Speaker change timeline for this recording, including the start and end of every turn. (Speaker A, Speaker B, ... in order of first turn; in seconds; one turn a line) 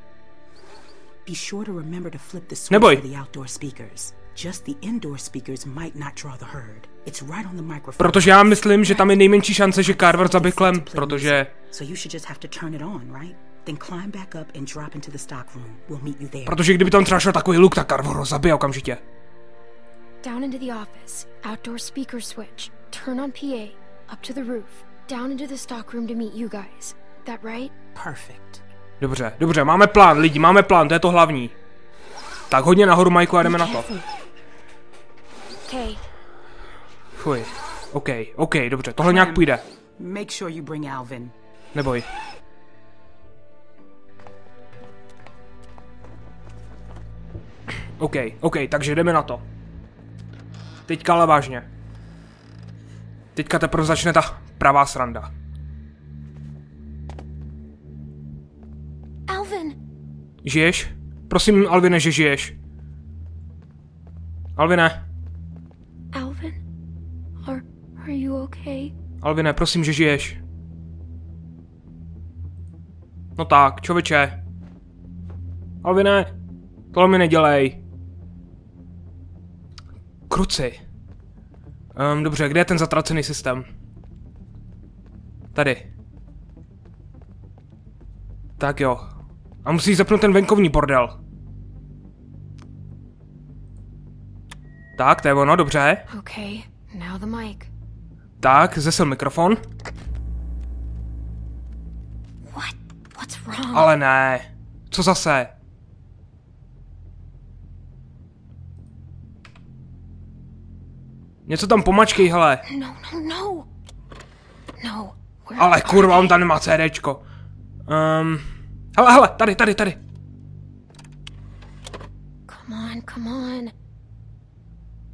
Speaker A: 1.2-16.7
Speaker B: 2.7-3.0
Speaker B: 8.0-11.5
Speaker B: 16.5-19.0
Speaker C: 20.2-27.7
Speaker A: 27.9-28.6
Speaker B: 29.0-31.6
Speaker B: 32.5-33.9
Speaker C: 35.7-36.0
Speaker B: 37.2-39.6
Speaker A: 39.0-41.3
Speaker B: 41.8-42.1
Speaker B: 48.0-49.4
Speaker B: 50.9-51.7
Speaker B: 53.4-55.3
Speaker C: 59.3-59.8
Speaker B: 60.4-62.5
Speaker B: 64.6-65.0
Speaker C: 66.1-66.6
Speaker C: 67.4-68.9
Speaker B: 69.2-70.4
Speaker B: 73.4-74.4
Speaker B: 75.8-76.3
Speaker B: 76.9-77.8
Speaker B: 80.3-80.8
Speaker B: 82.0-83.7
Speaker B: 85.5-85.9
Speaker B: 88.6-89.1
Speaker B: 89.6-91.2
Speaker B: 95.0-96.0
Speaker C: 96.1-97.7
Speaker B: 98.4-99.6
Speaker C: 102.5-103.9
Speaker B: 103.7-105.5
Speaker B: 111.5-112.6
Speaker C: 112.7-113.7
Speaker C: 114.8-116.4
Speaker B: 115.6-117.2
Speaker B: 117.9-120.0
Speaker C: 122.5-123.7